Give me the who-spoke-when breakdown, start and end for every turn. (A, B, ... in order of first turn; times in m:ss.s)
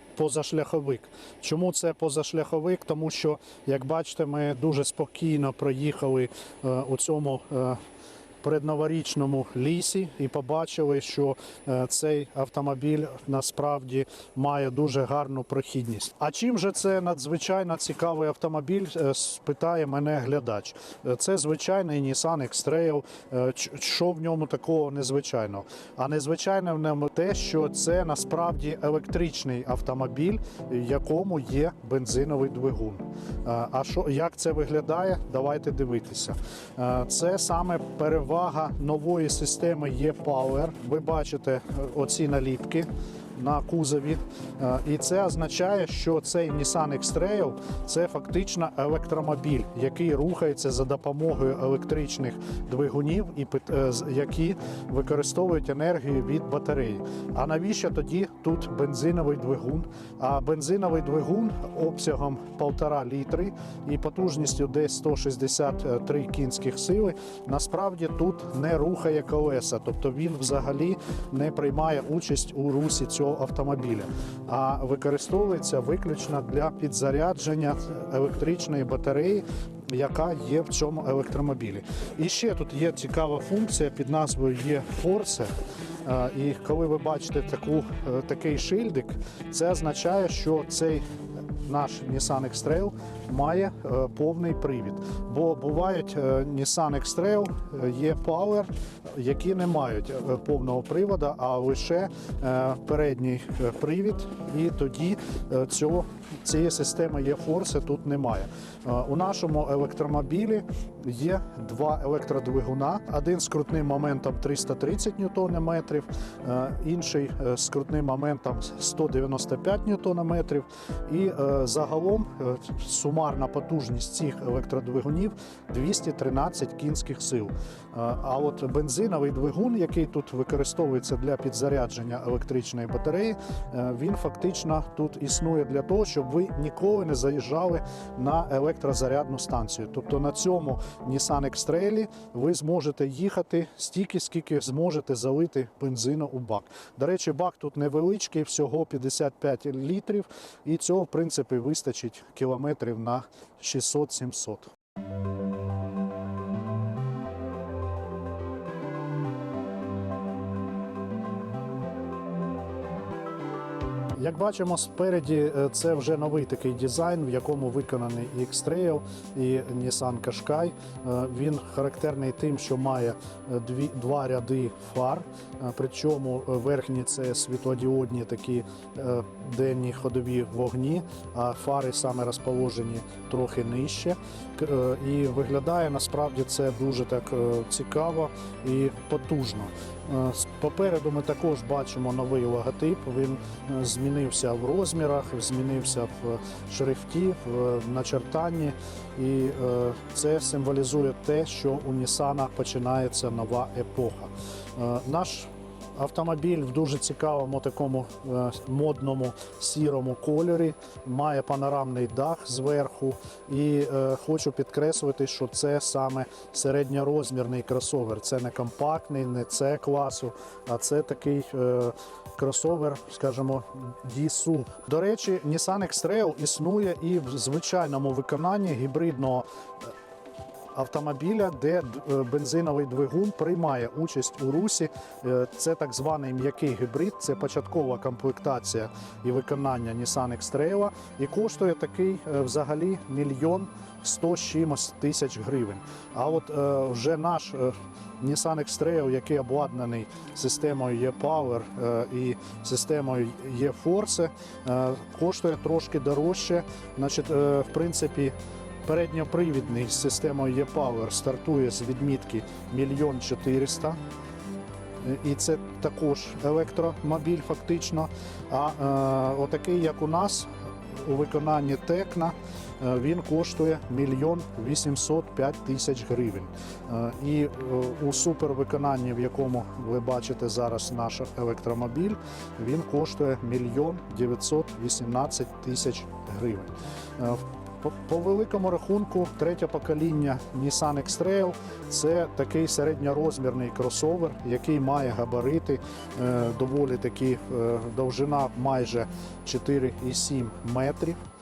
0:00.2-0:07.8 A
0:08.4-1:25.5 A
1:26.0-1:31.1 A
1:31.6-2:34.7 A
2:44.2-3:49.5 A
3:50.7-4:24.0 A
4:25.0-5:01.2 A